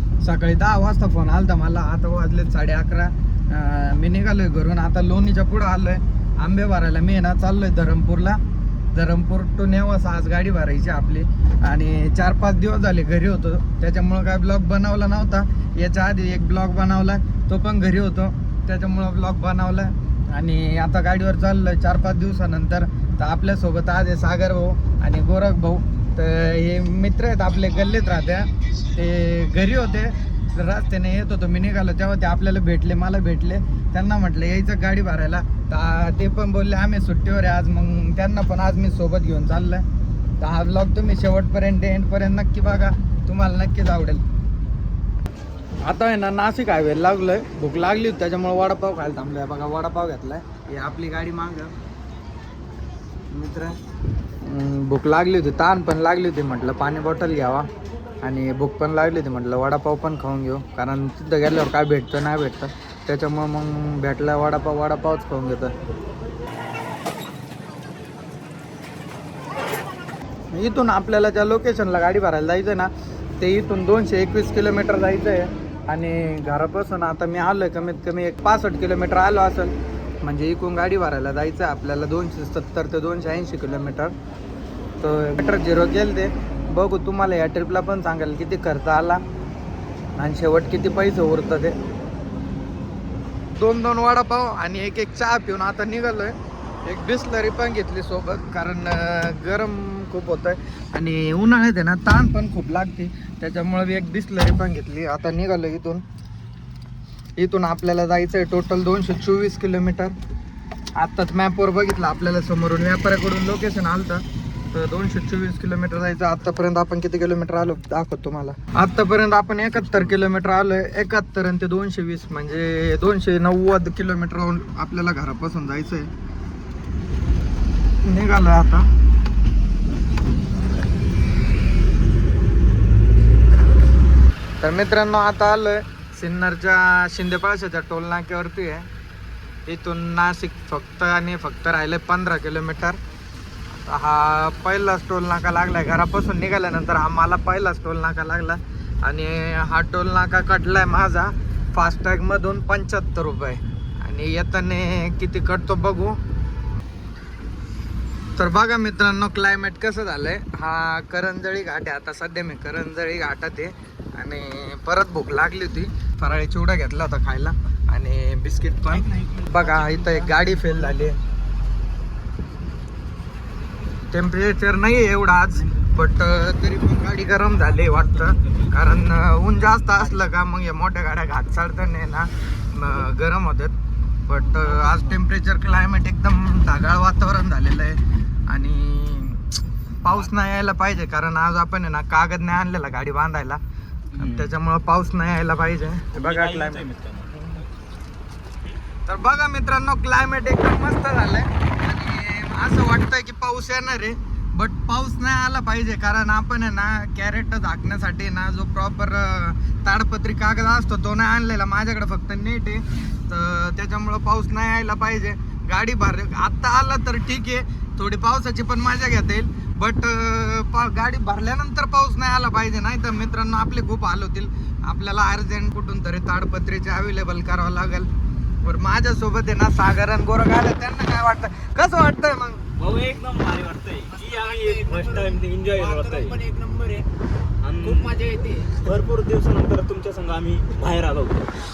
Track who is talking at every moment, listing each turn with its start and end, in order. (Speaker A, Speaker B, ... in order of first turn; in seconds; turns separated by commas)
Speaker A: 0.2-8.4, Speaker A: 8.9-39.8, Speaker A: 40.4-44.2, Speaker A: 45.8-51.7, Speaker A: 53.3-53.8, Speaker A: 54.5-57.7, Speaker A: 58.2-65.7, Speaker A: 70.5-84.1, Speaker A: 85.0-89.2, Speaker A: 90.2-91.8, Speaker A: 93.5-106.0, Speaker A: 107.4-110.1, Speaker A: 111.0-126.1, Speaker A: 128.0-128.9, Speaker A: 134.6-138.9, Speaker A: 139.7-143.0, Speaker A: 143.8-156.2, Speaker A: 158.4-171.2, Speaker B: 168.9-171.1, Speaker A: 174.1-183.7, Speaker B: 177.7-178.7, Speaker A: 184.3-189.5, Speaker B: 184.8-185.1, Speaker A: 190.0-193.6, Speaker B: 194.1-194.5, Speaker A: 194.2-196.8, Speaker B: 196.1-197.3, Speaker A: 199.1-228.1, Speaker A: 228.6-232.6, Speaker B: 232.8-236.4, Speaker C: 234.1-237.1, Speaker B: 237.6-238.1, Speaker C: 237.8-238.9, Speaker B: 238.8-241.5